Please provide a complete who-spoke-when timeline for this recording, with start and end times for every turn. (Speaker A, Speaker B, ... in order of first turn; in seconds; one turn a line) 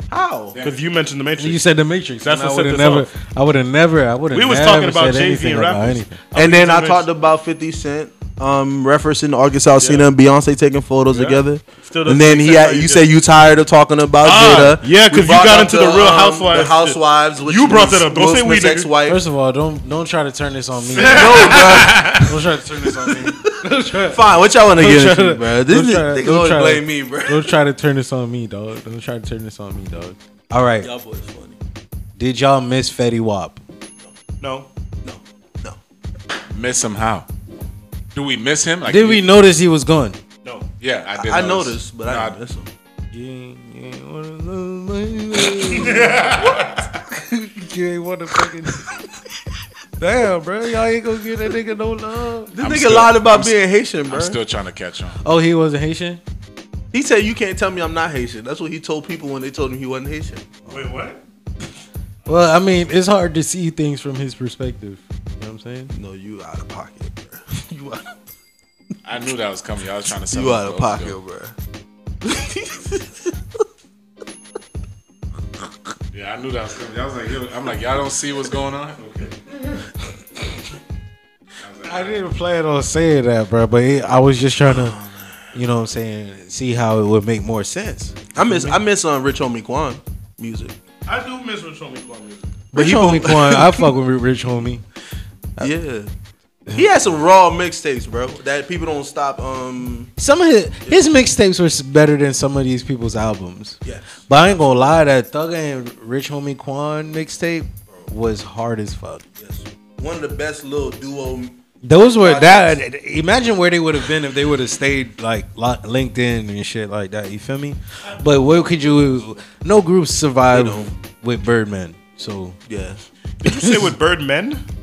Speaker A: 0.1-0.6
Speaker B: 0.5-0.8
Speaker C: 0.6-1.6
Speaker D: 1.4-6.2
Speaker C: 2.2-3.1
Speaker C: 4.3-7.1
Speaker A: 6.3-19.2
Speaker C: 9.8-10.1
Speaker C: 11.1-13.1
Speaker C: 14.2-18.9
Speaker D: 19.1-24.2
Speaker C: 21.0-22.1
Speaker A: 21.0-22.3
Speaker A: 23.1-23.5
Speaker A: 24.1-27.6
Speaker D: 24.7-30.9
Speaker A: 30.8-31.6
Speaker D: 32.2-33.6
Speaker C: 34.4-34.7
Speaker A: 35.0-35.8
Speaker B: 36.5-37.3
Speaker B: 38.1-39.2
Speaker D: 38.8-40.2
Speaker B: 40.8-42.4
Speaker A: 41.1-42.7
Speaker D: 43.1-48.9
Speaker C: 45.8-46.5
Speaker D: 50.0-52.5
Speaker A: 52.5-54.4
Speaker B: 52.6-53.5
Speaker B: 54.1-55.2
Speaker D: 55.2-56.2
Speaker A: 56.9-60.5
Speaker C: 60.7-61.2
Speaker D: 62.3-65.9
Speaker A: 65.9-68.2
Speaker B: 69.0-71.2
Speaker A: 70.3-71.5
Speaker A: 72.2-73.3
Speaker B: 76.1-79.2
Speaker B: 81.6-82.2
Speaker D: 81.8-85.0
Speaker A: 84.7-85.3
Speaker D: 85.5-88.7
Speaker A: 88.3-90.7
Speaker C: 91.1-92.5
Speaker A: 92.7-93.9
Speaker D: 92.7-94.8
Speaker A: 95.6-96.1
Speaker A: 96.7-100.1
Speaker D: 100.2-109.2
Speaker A: 109.4-112.8
Speaker D: 111.8-122.6
Speaker A: 120.5-120.9
Speaker A: 122.7-123.0
Speaker C: 123.4-124.6